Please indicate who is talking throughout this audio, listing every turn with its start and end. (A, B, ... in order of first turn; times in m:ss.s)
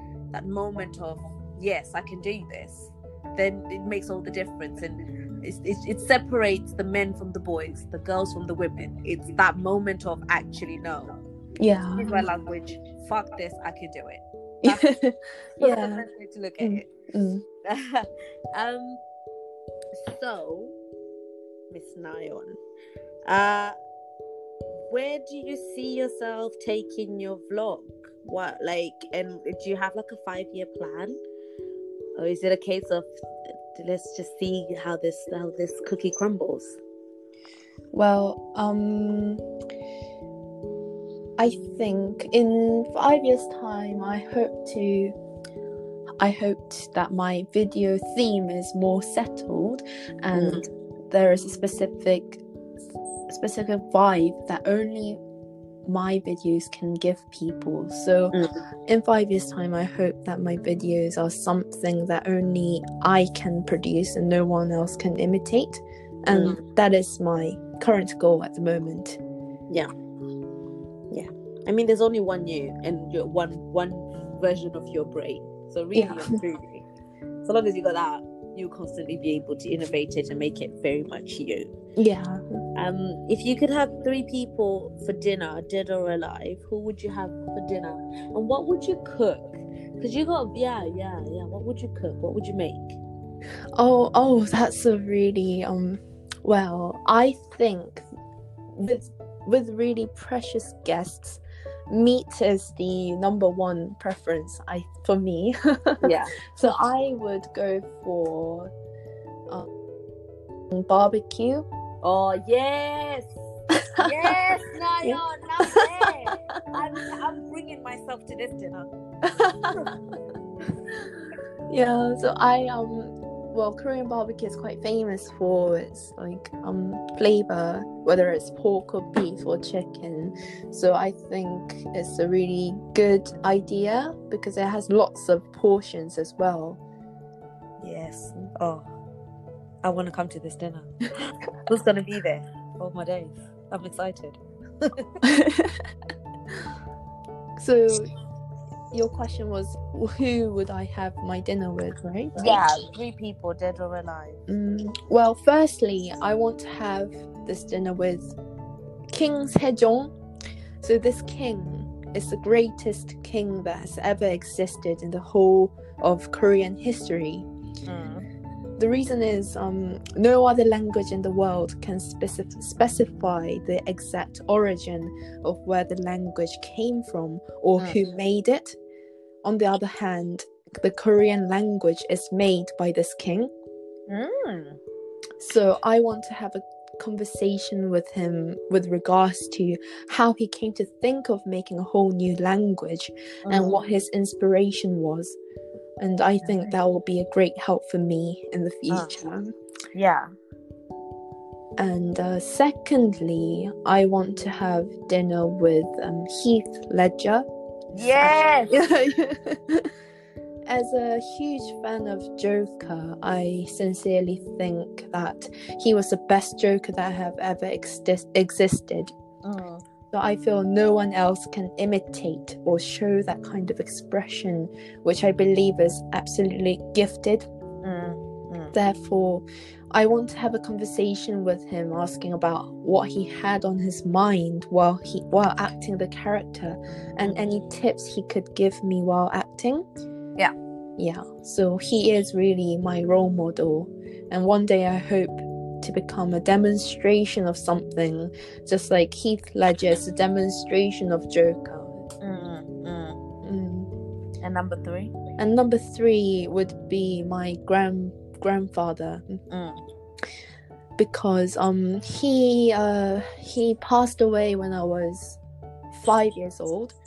0:00.3-0:11.1 A
0:11.6-0:12.3 B
0:12.0-0:14.8 A
0:14.6-0:16.0 B
0:15.6-0:16.9 A
0:16.6-0:17.4 B
0:17.6-0:19.0 A
0:19.9-0:20.8 A
0:21.7-0:22.6 A
0:23.3-0:23.8 A
0:24.9-0:31.2 A
0:32.2-0:33.1 A
0:33.7-0:36.8 A
0:37.9-0:39.4 B
0:41.4-0:45.1 B
0:46.2-0:52.4 B
0:50.3-0:50.6 A
0:53.3-0:55.2 B
0:55.9-0:58.4 B
0:58.3-0:58.6 A
0:58.9-1:09.2 B
1:06.3-1:06.6 A
1:11.1-1:16.8 A
1:15.9-1:16.3 B
1:17.4-1:21.7 A
1:22.0-1:22.4 B
1:22.8-1:33.0 A
1:33.8-1:38.0 B
1:38.8-1:48.7 B
1:46.0-1:46.4 A
1:50.7-1:51.6 B
1:52.0-1:53.3 A
1:53.7-1:54.1 B
1:54.0-1:58.9 A
1:55.0-1:55.9 B
1:59.2-1:59.9 B
2:01.7-2:16.8 B
2:17.8-2:18.9 A
2:19.8-2:25.1 A
2:25.2-2:25.8 B
2:27.6-2:28.1 B
2:28.9-2:32.6 B
2:32.4-2:34.4 A
2:34.5-2:38.4 B
2:39.1-2:40.1 B
2:40.8-2:47.5 B
2:47.9-2:48.3 A
2:48.8-2:58.8 B
2:59.4-3:03.5 B
3:04.1-3:04.8 A
3:05.4-3:15.4 B
3:13.4-3:13.8 A
3:16.0-3:19.5 B
3:16.4-3:16.7 A
3:18.9-3:19.2 A
3:19.9-3:20.3 A
3:21.8-3:27.5 B
3:27.9-3:28.8 A
3:28.1-3:29.9 B
3:30.7-3:39.1 B
3:39.4-3:39.8 A
3:40.1-3:47.5 B
3:47.8-3:48.8 A
3:48.7-3:59.8 B
4:01.0-4:12.0 B
4:12.2-4:13.2 A
4:13.4-4:13.9 B
4:14.4-4:15.1 A
4:15.4-4:19.4 B
4:19.5-4:19.8 A
4:21.0-4:25.4 B
4:25.9-4:27.0 B